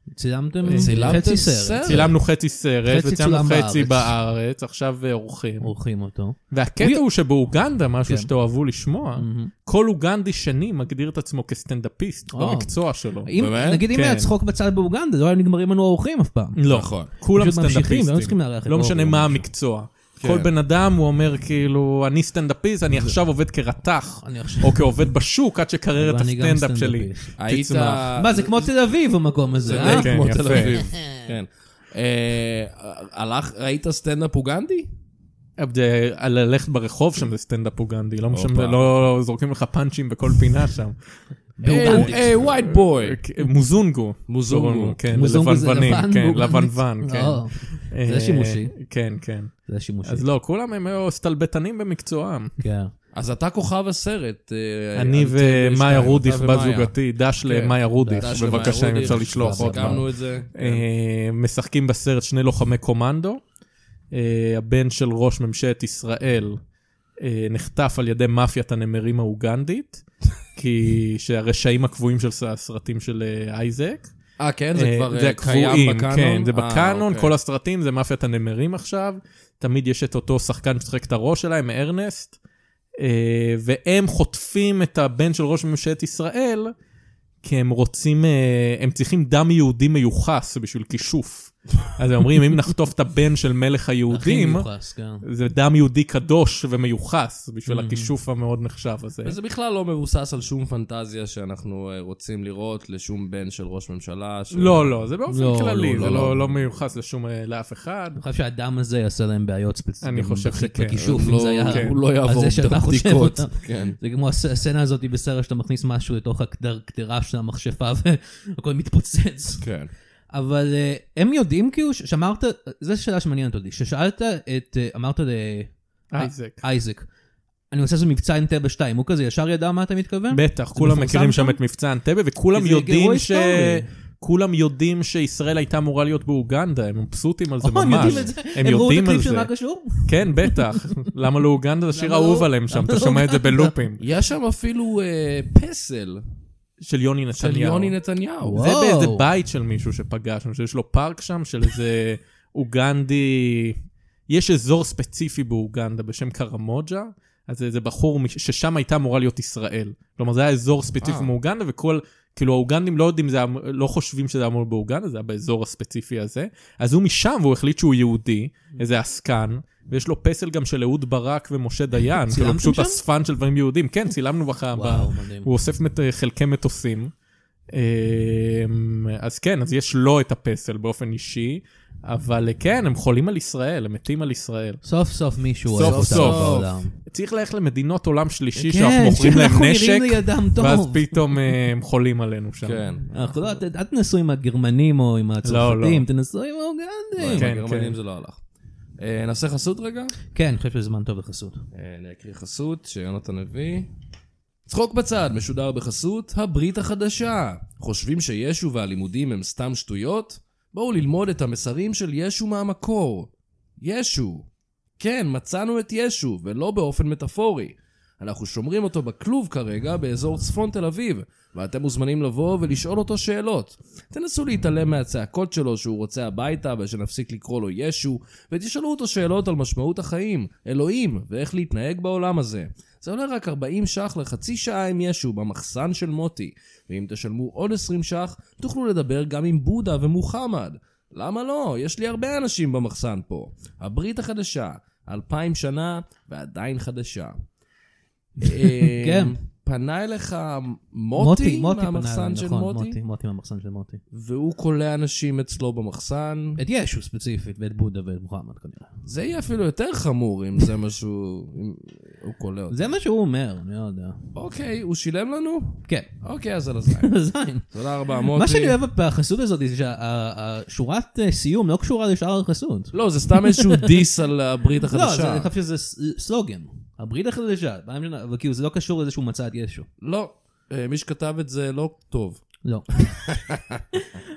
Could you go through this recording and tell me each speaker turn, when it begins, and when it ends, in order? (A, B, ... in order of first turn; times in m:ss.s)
0:00.2-0:02.1 A
0:00.6-0:01.3 B
0:00.7-0:02.1 C
0:01.8-0:05.7 B
0:02.8-0:04.2 A
0:05.6-0:07.0 A
0:06.5-0:13.3 B
0:09.2-0:09.5 A
0:12.3-0:12.7 A
0:13.2-0:16.6 A
0:13.4-0:13.9 C
0:13.9-0:14.3 B
0:16.6-0:28.1 B
0:16.7-0:17.1 C
0:17.2-0:19.5 A
0:20.2-0:20.5 C
0:24.2-0:24.9 A
0:26.0-0:27.3 A
0:27.4-0:28.7 C
0:28.2-0:31.2 A
0:29.6-0:34.9 C
0:29.7-0:30.9 B
0:35.6-0:41.0 B
0:38.3-0:38.9 C
0:41.6-0:42.3 A
0:41.6-0:52.6 B
0:41.6-0:43.2 C
0:44.3-0:45.0 C
0:45.1-0:48.8 A
0:49.7-0:50.2 A
0:52.6-0:52.9 A
0:53.1-1:00.8 C
0:55.0-1:03.4 B
0:58.0-1:00.1 A
1:04.1-1:06.6 B
1:07.2-1:14.1 B
1:14.4-1:17.3 C
1:14.8-1:22.4 B
1:23.0-1:26.7 B
1:27.4-1:34.7 B
1:34.1-1:35.2 A
1:35.2-1:39.4 B
1:37.7-1:38.1 A
1:39.2-1:46.7 C
1:44.5-1:48.2 B
1:45.3-1:45.9 A
1:48.2-1:59.7 A
1:50.0-1:52.0 B
1:51.0-1:54.0 C
1:59.6-1:59.9 C
2:00.3-2:07.1 A
2:06.1-2:06.6 B
2:07.7-2:11.6 A
2:10.3-2:19.5 B
2:12.5-2:13.9 A
2:17.6-2:20.8 A
2:17.9-2:18.3 C
2:20.0-2:24.0 B
2:21.9-2:23.8 A
2:24.0-2:26.2 C
2:26.8-2:28.0 B
2:27.4-2:28.6 C
2:28.4-2:29.3 A
2:28.6-2:33.8 B
2:34.3-2:57.1 B
2:41.0-2:41.3 C
2:52.3-2:53.0 A
2:54.7-2:55.5 A
2:57.7-3:04.8 B
3:04.8-3:06.9 A
3:05.7-3:12.8 B
3:05.8-3:06.8 C
3:08.6-3:11.4 A
3:12.6-3:13.4 C
3:13.1-3:17.5 A
3:15.4-3:16.0 B
3:17.2-3:18.4 C
3:17.3-3:18.0 B
3:19.0-3:20.2 C
3:20.3-3:21.6 A
3:21.7-3:23.9 C
3:24.7-3:33.3 C
3:33.8-3:34.5 C
3:35.0-4:07.4 C
4:08.4-4:13.0 C
4:08.4-4:09.4 A
4:11.2-4:14.0 A
4:14.1-4:16.6 C
4:16.6-4:18.9 A
4:19.1-4:22.9 C
4:22.7-4:24.2 A
4:24.4-4:27.1 C
4:27.0-4:27.7 A
4:27.7-4:28.8 C
4:28.3-4:33.9 A
4:32.9-4:35.5 C
4:34.9-4:39.9 A
4:40.0-4:42.4 C
4:42.6-4:43.3 A
4:43.1-4:43.8 C